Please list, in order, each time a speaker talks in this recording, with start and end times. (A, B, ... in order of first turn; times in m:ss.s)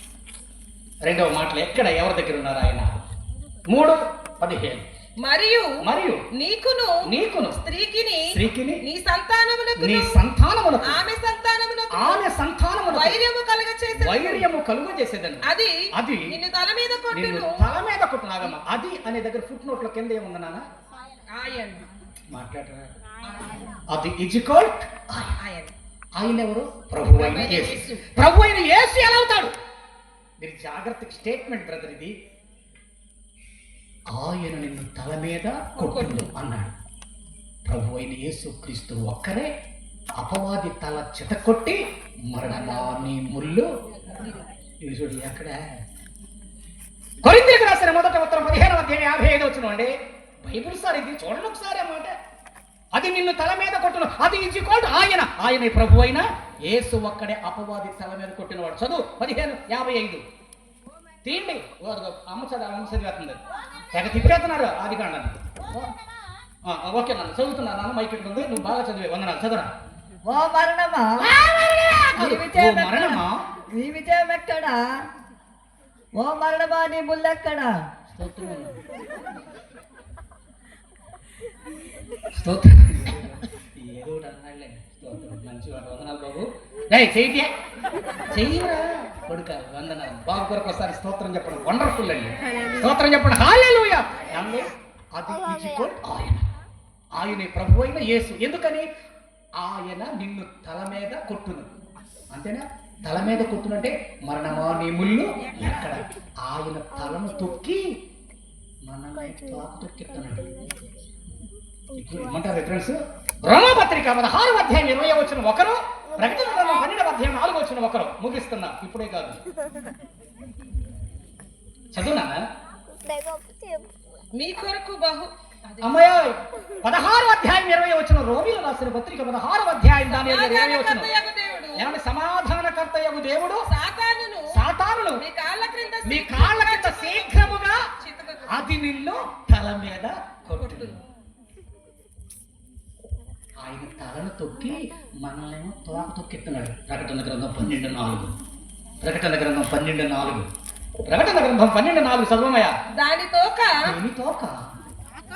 0:01.0-0:03.0 A
0:03.7-0:04.9 A
0:05.2-0:05.8 B
0:05.8-0:06.2 A
0:06.3-0:08.3 B
0:07.0-0:07.6 A
0:08.3-0:08.8 A
0:08.8-0:10.2 B
0:09.8-0:11.0 A
0:10.8-0:12.3 B
0:11.9-0:13.2 A
0:12.9-0:14.5 B
0:14.0-0:16.4 A
0:15.4-0:17.7 B
0:17.1-0:20.6 A
0:21.3-0:21.9 B
0:22.3-0:22.9 A
0:23.2-0:23.6 B
0:23.9-0:25.4 A
0:25.4-0:25.7 B
0:26.2-0:29.5 A
0:27.0-0:28.0 B
0:30.4-0:32.1 A
0:34.1-0:36.7 A
0:35.8-0:36.3 B
0:37.6-0:39.5 A
0:40.2-0:43.7 A
0:44.8-0:45.6 A
0:47.2-0:52.1 A
0:52.9-1:00.2 A
1:01.2-1:03.4 A
1:03.9-1:05.4 A
1:06.6-1:09.7 A
1:10.2-1:11.2 C
1:11.2-1:13.4 A
1:12.1-1:13.2 C
1:13.7-1:14.8 C
1:16.2-1:17.8 C
1:18.1-1:18.8 A
1:22.3-1:27.5 A
1:28.3-1:36.5 A
1:37.1-1:38.9 A
1:39.6-1:41.7 A
1:42.3-1:48.0 A
1:48.8-1:50.6 A
1:51.9-1:59.4 A
2:01.9-2:02.4 A
2:04.3-2:06.2 B
2:05.8-2:11.1 A
2:10.0-2:12.0 B
2:11.7-2:13.7 A
2:13.7-2:14.6 B
2:14.5-2:15.2 A
2:15.1-2:18.7 B
2:16.0-2:17.9 A
2:18.5-2:21.0 A
2:20.6-2:21.0 B
2:23.6-2:28.3 A
2:29.0-2:30.5 A
2:31.1-2:32.7 A
2:32.9-2:33.9 B
2:33.8-2:34.6 A